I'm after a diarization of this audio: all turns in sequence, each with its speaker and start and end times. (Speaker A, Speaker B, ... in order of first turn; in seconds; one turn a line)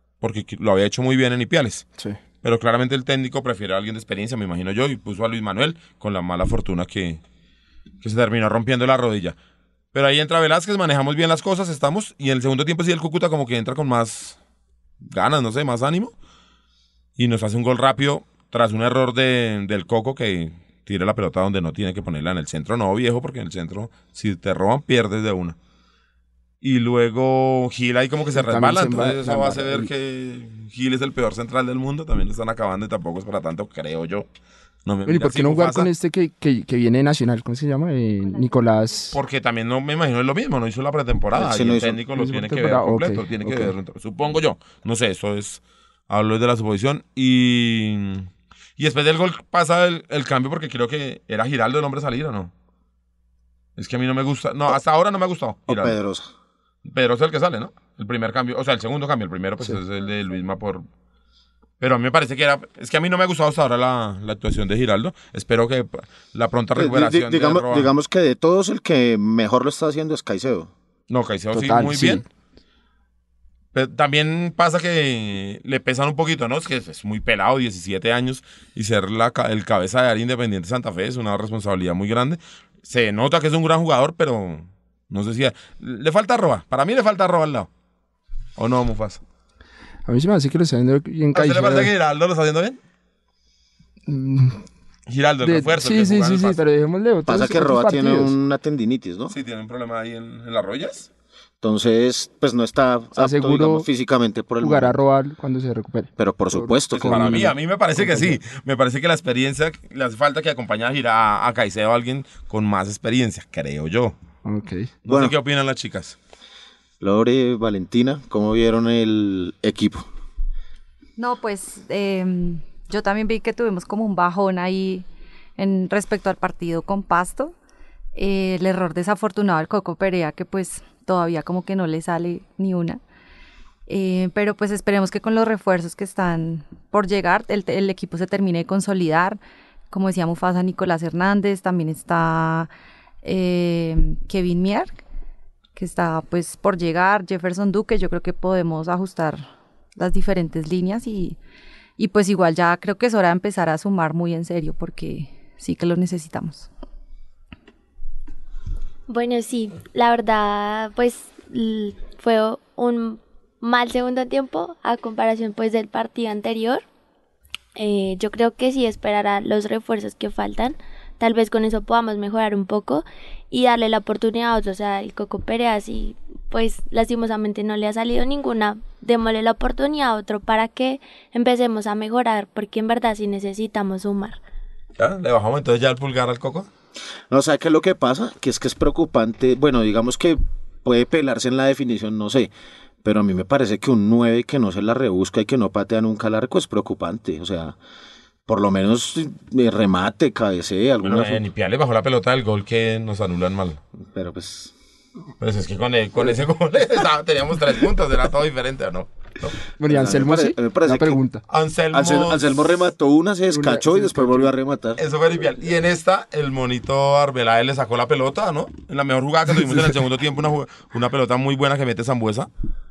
Speaker A: 0.2-1.9
Speaker A: 2.4-7.2
Speaker A: 8.0-9.4
Speaker A: 9.9-14.4
Speaker A: 15.0-16.1
Speaker A: 17.2-25.6
Speaker A: 26.6-34.3
Speaker B: 28.4-29.9
Speaker A: 34.9-35.9
Speaker B: 35.1-39.2
Speaker A: 39.1-52.5
Speaker C: 41.3-42.0
Speaker B: 42.2-43.7
Speaker A: 53.8-56.0
Speaker C: 55.7-56.3
Speaker A: 56.9-60.9
Speaker A: 61.8-67.9
Speaker C: 66.8-70.7
Speaker A: 71.1-72.2
Speaker B: 71.5-72.2
Speaker A: 73.7-87.7
Speaker A: 88.6-89.2
Speaker B: 90.1-91.9
Speaker A: 91.3-92.8
Speaker B: 94.1-94.6
Speaker A: 95.1-96.6
Speaker B: 95.4-98.3
Speaker C: 97.3-99.3
Speaker A: 99.3-101.1
Speaker C: 101.6-105.0
Speaker B: 103.2-103.9
Speaker B: 104.6-108.4
Speaker C: 106.2-107.5
Speaker A: 107.0-114.2
Speaker B: 114.5-114.9
Speaker A: 115.0-116.2
Speaker C: 115.1-115.3
Speaker C: 117.0-120.0
Speaker D: 121.2-125.1
Speaker D: 125.6-127.5
Speaker D: 128.2-133.0
Speaker D: 133.9-139.4
Speaker D: 139.9-142.7
Speaker D: 143.2-145.0
Speaker D: 145.8-151.4
Speaker D: 152.0-156.7
Speaker E: 159.1-166.8
Speaker E: 167.8-184.4
Speaker A: 185.0-186.7
Speaker C: 187.3-192.5
Speaker C: 193.0-197.8
Speaker C: 198.5-201.4
Speaker A: 201.0-203.8
Speaker C: 204.0-204.7
Speaker A: 205.4-209.6
Speaker B: 209.8-211.4
Speaker C: 209.9-211.2
Speaker A: 211.5-212.4
Speaker C: 211.9-215.0
Speaker B: 213.5-214.5
Speaker A: 215.0-222.5